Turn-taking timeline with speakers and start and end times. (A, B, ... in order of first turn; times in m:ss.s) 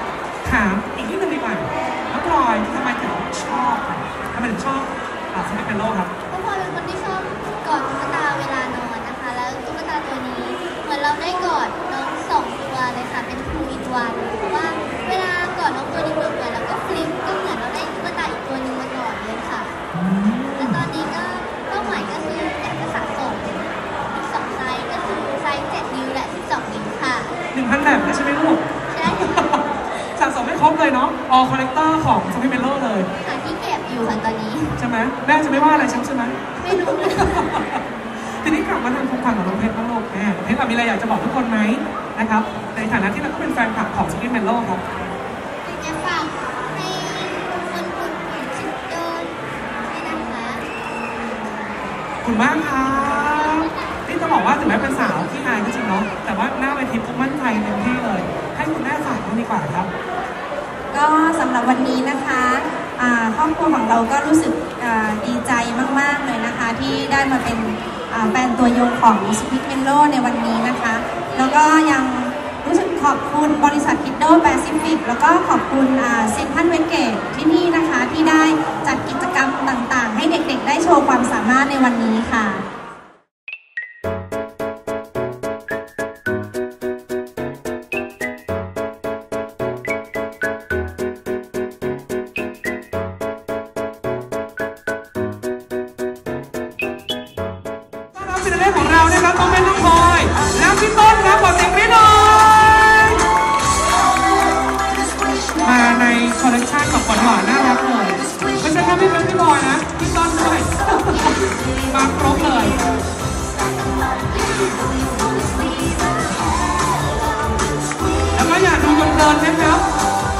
0:00.4-0:06.1 A
0:06.3-0:19.8 B
0:19.9-0:20.8 A
0:20.6-0:27.3 B
0:27.5-0:33.1 A
0:28.9-0:30.1 B
0:33.2-0:34.8 B
0:34.8-0:44.8 A
0:36.6-0:37.5 B
0:45.6-0:50.7 B
0:52.2-0:59.9 A
0:53.0-0:53.9 B
1:00.9-1:22.6 C
1:38.1-1:43.2 A
1:45.6-1:52.8 A
1:51.0-1:51.7 B
1:54.0-1:56.4 B
1:58.3-1:59.8 A